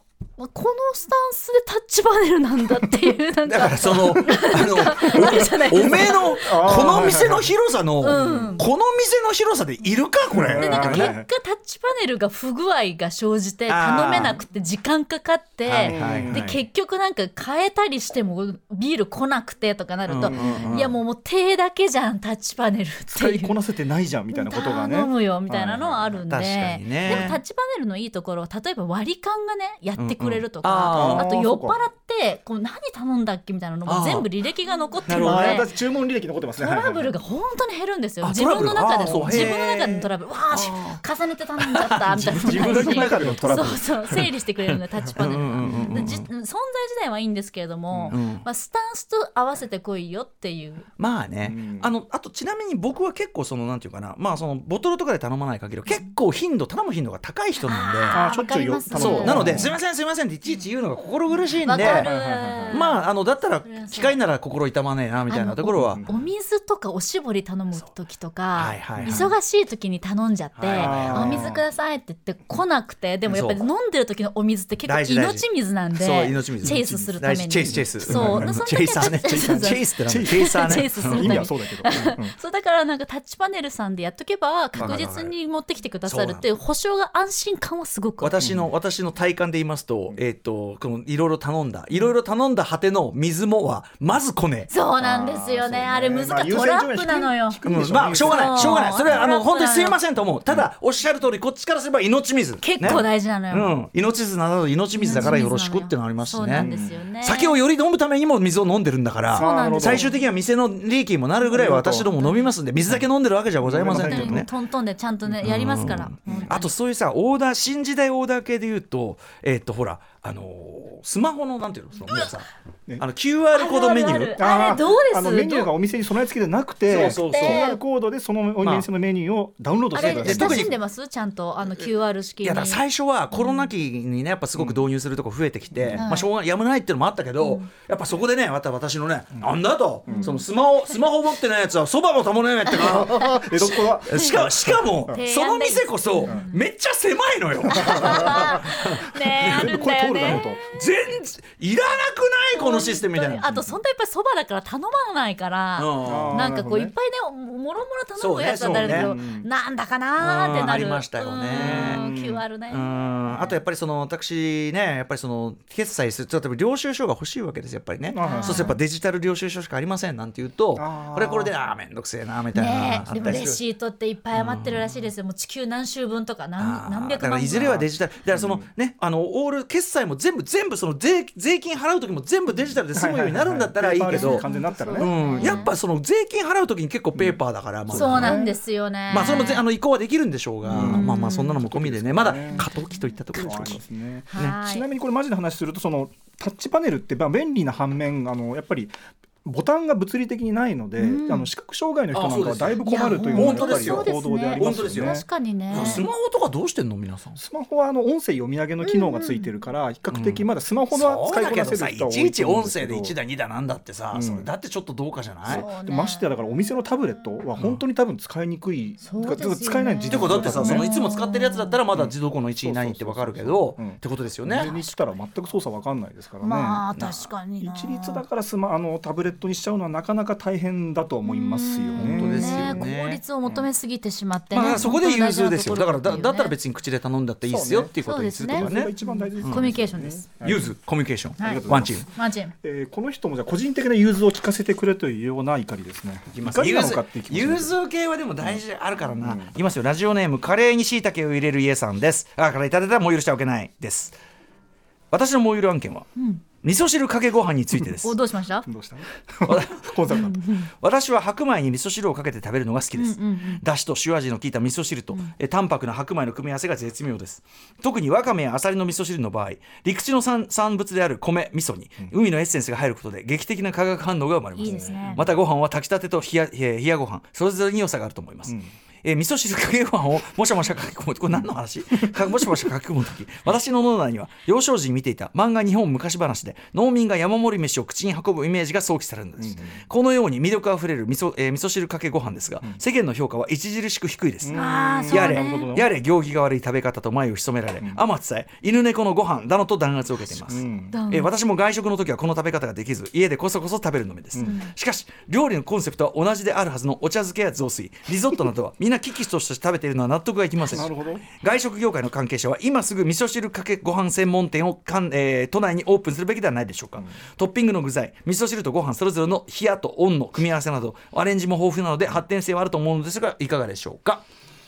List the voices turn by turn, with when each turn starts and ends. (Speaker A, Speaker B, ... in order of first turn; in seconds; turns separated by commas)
Speaker A: 0.4-6.9, Speaker B: 3.5-11.2, Speaker C: 5.8-7.5, Speaker A: 8.0-8.7, Speaker C: 8.1-8.6, Speaker C: 10.3-11.3, Speaker A: 10.6-23.5, Speaker B: 13.7-14.4, Speaker B: 15.7-16.6, Speaker C: 15.8-16.4, Speaker B: 20.1-20.9, Speaker C: 20.2-20.9, Speaker C: 23.1-26.1, Speaker A: 24.3-35.7, Speaker B: 26.3-27.4, Speaker C: 27.1-27.3, Speaker B: 30.0-31.3, Speaker C: 30.9-31.8, Speaker B: 33.9-34.3, Speaker B: 35.1-35.7, Speaker C: 35.1-37.1, Speaker A: 36.6-50.9, Speaker B: 38.2-41.0, Speaker B: 41.6-46.3, Speaker C: 42.2-43.9, Speaker C: 45.6-45.9, Speaker C: 47.9-48.2, Speaker B: 48.1-48.5, Speaker B: 51.0-58.2, Speaker C: 51.4-51.9, Speaker A: 57.6-59.7, Speaker C: 58.1-59.8, Speaker B: 59.0-62.1, Speaker A: 61.6-63.0, Speaker C: 61.8-62.8, Speaker B: 62.7-66.0, Speaker A: 63.6-64.2, Speaker A: 65.3-88.3, Speaker C: 65.8-66.2, Speaker B: 68.6-69.3, Speaker C: 69.0-69.3, Speaker B: 70.6-71.6, Speaker C: 70.8-71.6, Speaker B: 73.3-73.6, Speaker B: 74.9-75.5, Speaker B: 76.0-81.5, Speaker C: 77.7-78.5, Speaker C: 79.1-82.3, Speaker B: 84.8-85.3, Speaker B: 86.0-86.5, Speaker B: 88.2-94.7, Speaker C: 88.4-88.7, Speaker A: 94.7-97.6, Speaker C: 95.0-99.3, Speaker B: 97.7-106.7, Speaker A: 98.2-100.0, Speaker A: 102.6-103.8, Speaker A: 105.0-107.6, Speaker C: 106.5-107.0, Speaker B: 107.2-114.5, Speaker C: 109.3-110.1, Speaker A: 109.4-110.2, Speaker C: 111.4-112.2, Speaker A: 112.2-112.5, Speaker C: 113.6-114.5, Speaker A: 113.9-116.7, Speaker B: 115.4-122.5, Speaker B: 123.0-124.4, Speaker A: 123.5-125.7, Speaker C: 124.4-130.7, Speaker B: 126.9-127.7, Speaker A: 127.0-127.8, Speaker B: 128.6-128.9, Speaker B: 129.9-130.8, Speaker A: 129.9-132.8, Speaker B: 132.4-153.7, Speaker A: 133.3-133.7, Speaker C: 134.6-134.8, Speaker C: 135.7-136.1, Speaker A: 136.0-136.3, Speaker A: 137.4-137.7, Speaker C: 140.1-140.4, Speaker A: 140.1-140.4, Speaker C: 142.7-145.2, Speaker A: 145.1-146.5, Speaker C: 147.7-148.5, Speaker A: 147.8-150.8, Speaker C: 149.4-150.6, Speaker A: 152.5-163.5, Speaker B: 155.8-156.5, Speaker C: 156.0-156.9, Speaker B: 158.2-159.2, Speaker C: 158.7-159.5, Speaker B: 160.2-162.0, Speaker C: 161.5-162.4, Speaker B: 162.7-173.6, Speaker C: 168.1-168.8, Speaker A: 168.2-168.8, Speaker C: 170.8-171.5, Speaker A: 172.5-177.9, Speaker C: 173.2-173.5, Speaker B: 174.3-174.9, Speaker B: 176.6-184.4, Speaker C: 178.3-178.7, Speaker C: 182.9-185.6, Speaker A: 184.2-185.7, Speaker B: 185.0-188.4, Speaker C: 187.2-188.6, Speaker A: 187.9-189.6, Speaker B: 189.1-193.8, Speaker C: 189.2-189.4, Speaker C: 190.7-192.7, Speaker A: 190.7-191.6, Speaker A: 192.5-193.0, Speaker C: 193.3-206.0, Speaker A: 194.3-194.9, Speaker A: 201.0-201.5, Speaker B: 202.1-202.8, Speaker A: 202.8-206.0, Speaker B: 203.3-205.2, Speaker B: 205.7-207.4, Speaker C: 207.4-213.1, Speaker A: 208.8-209.5, Speaker B: 210.1-215.7, Speaker C: 214.1-214.5, Speaker C: 215.5-220.9, Speaker A: 215.5-216.3, Speaker B: 217.6-217.8, Speaker A: 219.0-221.8, Speaker B: 220.1-224.7, Speaker C: 221.9-226.8, Speaker A: 224.6-224.9, Speaker A: 226.4-228.2, Speaker B: 226.9-227.3, Speaker C: 227.6-232.9, Speaker A: 231.3-236.6, Speaker B: 231.9-233.2, Speaker B: 234.5-239.7, Speaker C: 237.5-240.7, Speaker A: 238.0-240.3, Speaker B: 240.4-242.1, Speaker A: 241.4-242.5, Speaker C: 241.4-242.0, Speaker C: 242.6-247.8, Speaker B: 246.3-254.2, Speaker C: 249.2-249.5, Speaker B: 255.1-256.1, Speaker A: 256.2-256.4, Speaker B: 256.6-258.2, Speaker A: 258.0-258.7, Speaker C: 258.7-260.4, Speaker B: 259.4-324.2, Speaker A: 260.1-260.7, Speaker A: 263.0-263.6, Speaker A: 274.6-275.2, Speaker C: 274.6-275.3, Speaker C: 289.4-289.8, Speaker C: 294.4-295.9, Speaker A: 294.6-295.8, Speaker C: 300.5-301.0, Speaker A: 300.9-301.3, Speaker A: 304.4-304.7, Speaker C: 310.7-311.2